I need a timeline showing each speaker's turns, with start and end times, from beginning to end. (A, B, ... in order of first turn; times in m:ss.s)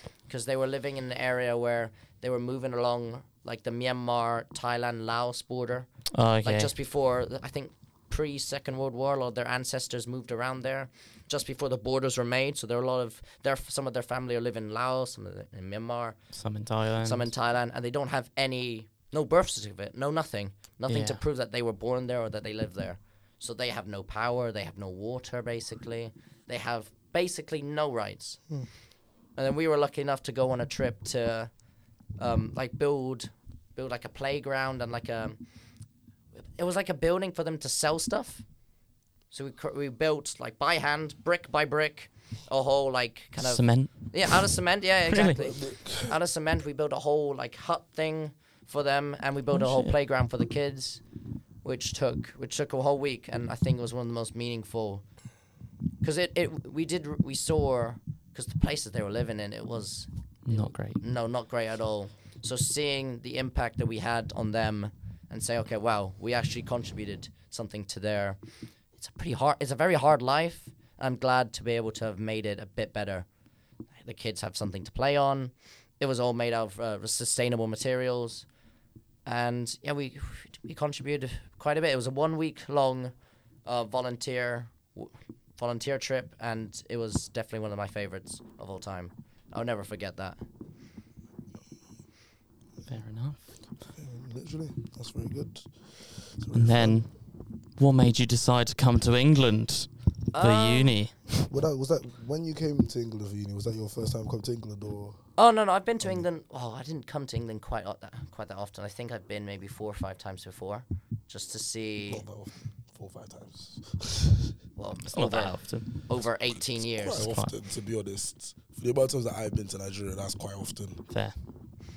0:00.3-0:16.2 A
0:06.1-0:06.7 B
0:16.3-0:17.3 B
0:17.0-0:28.5 A
0:20.9-0:21.2 B
0:29.4-0:31.5 A
0:32.2-0:35.4 A
0:36.4-0:38.4 A
0:39.3-0:51.0 A
0:43.4-0:44.5 B
0:45.1-0:45.4 B
0:45.4-0:46.2 C
0:49.5-0:49.9 B
0:51.6-0:55.1 A
0:56.0-1:08.4 A
1:00.4-1:01.0 B
1:09.0-1:13.2 A
1:14.0-1:18.4 A
1:19.2-1:23.1 A
1:23.6-1:30.4 A
1:32.9-1:33.4 B
1:33.9-1:37.0 C
1:36.5-1:37.2 B
1:37.8-1:41.5 B
1:40.3-1:41.0 A
1:41.5-1:45.2 C
1:45.4-1:52.2 A
1:52.1-1:54.5 C
1:54.8-1:57.3 A
1:55.1-1:56.0 B
1:56.8-2:01.0 C
1:57.1-1:57.5 B
2:01.1-2:01.4 B